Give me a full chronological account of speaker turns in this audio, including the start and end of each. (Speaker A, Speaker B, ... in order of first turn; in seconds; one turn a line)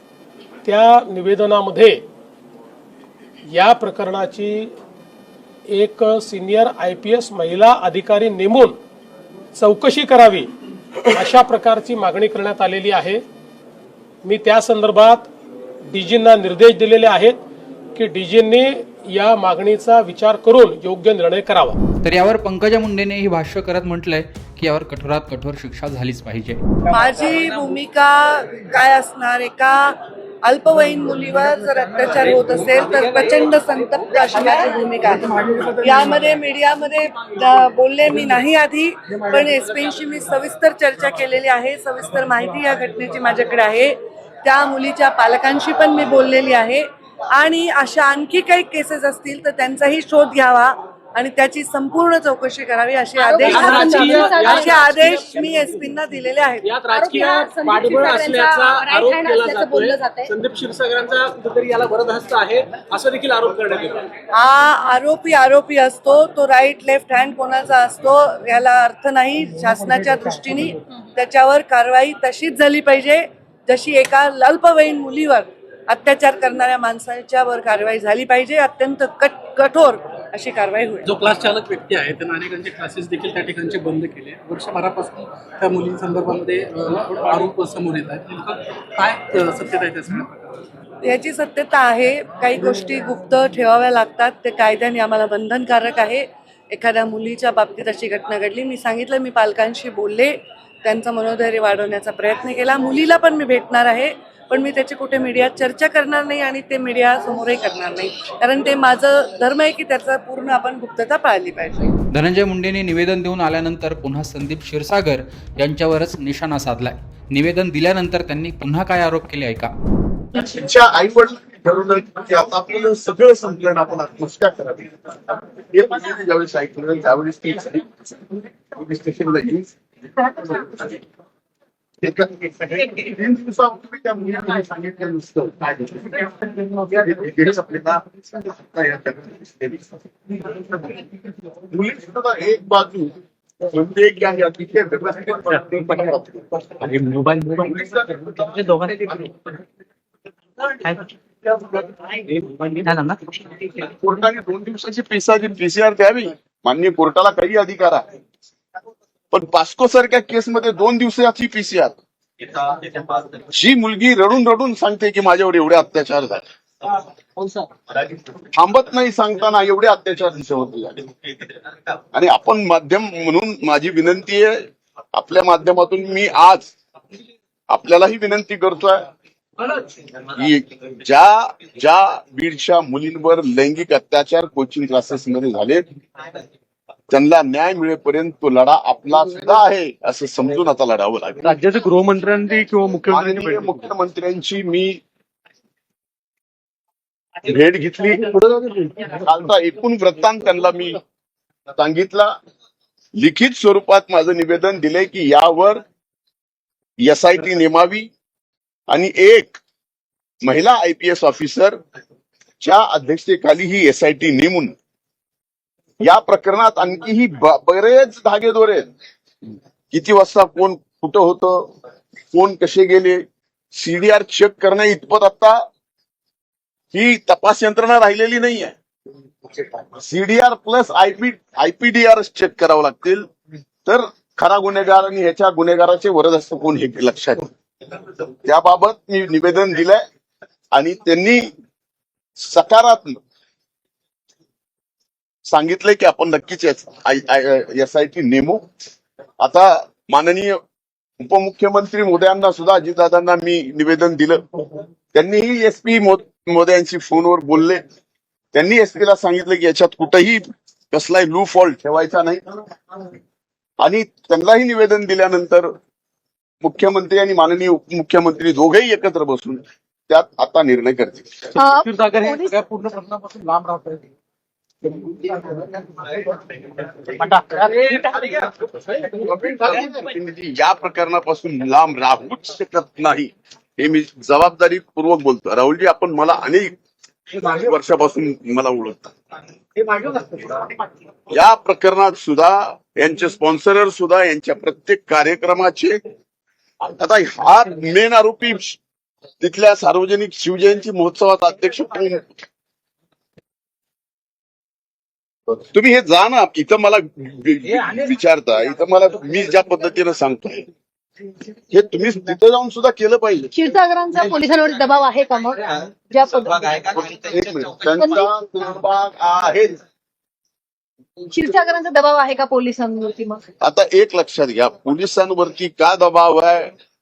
Speaker A: 0.7-2.0
Speaker A: 3.5-4.7
Speaker A: 5.7-8.8
Speaker A: 9.6-10.5
Speaker A: 11.1-13.2
Speaker A: 14.2-15.3
Speaker A: 15.9-17.4
Speaker A: 17.9-21.8
Speaker B: 22.0-26.6
Speaker C: 26.9-56.7
Speaker D: 35.4-36.3
Speaker E: 53.2-54.8
Speaker D: 53.5-55.9
Speaker D: 56.6-64.1
Speaker E: 56.9-60.3
Speaker C: 64.3-81.1
Speaker D: 81.1-90.4
Speaker C: 91.0-111.9
Speaker B: 112.1-119.7
Speaker F: 120.3-131.0
Speaker F: 132.0-141.1
Speaker F: 141.6-143.2
Speaker F: 143.7-149.3
Speaker F: 151.5-152.2
Speaker F: 153.6-158.1
Speaker F: 159.3-162.0
Speaker F: 162.6-166.4
Speaker F: 168.1-171.1
Speaker F: 172.1-176.7
Speaker F: 177.7-179.1
Speaker F: 180.2-185.8
Speaker F: 187.1-191.6
Speaker G: 191.6-193.6
Speaker F: 193.1-195.0
Speaker F: 197.4-201.0
Speaker F: 201.7-202.3
Speaker F: 203.2-205.8
Speaker F: 207.0-208.1
Speaker F: 208.9-209.6
Speaker F: 210.4-211.8
Speaker F: 212.6-214.8
Speaker F: 216.0-218.9
Speaker F: 219.9-221.7
Speaker F: 222.3-223.2
Speaker F: 223.7-225.6
Speaker F: 226.9-228.7
Speaker F: 229.5-233.3
Speaker F: 233.9-237.5
Speaker F: 238.4-240.0
Speaker F: 240.7-241.5
Speaker F: 242.4-243.2
Speaker F: 245.5-248.7
Speaker F: 249.4-250.6
Speaker F: 251.2-254.5
Speaker F: 255.1-257.8
Speaker F: 258.5-262.6
Speaker F: 263.8-265.7
Speaker F: 266.6-271.5
Speaker E: 271.6-272.6
Speaker G: 271.9-272.6
Speaker G: 273.2-273.9
Speaker F: 277.2-286.8
Speaker F: 287.3-289.1
Speaker F: 289.8-290.6
Speaker F: 291.3-296.0
Speaker F: 296.8-298.8
Speaker F: 299.4-302.3
Speaker F: 305.5-310.7
Speaker F: 311.7-313.5
Speaker E: 313.5-316.7
Speaker F: 316.7-319.8
Speaker E: 317.9-318.2
Speaker E: 321.3-323.4
Speaker F: 323.6-326.7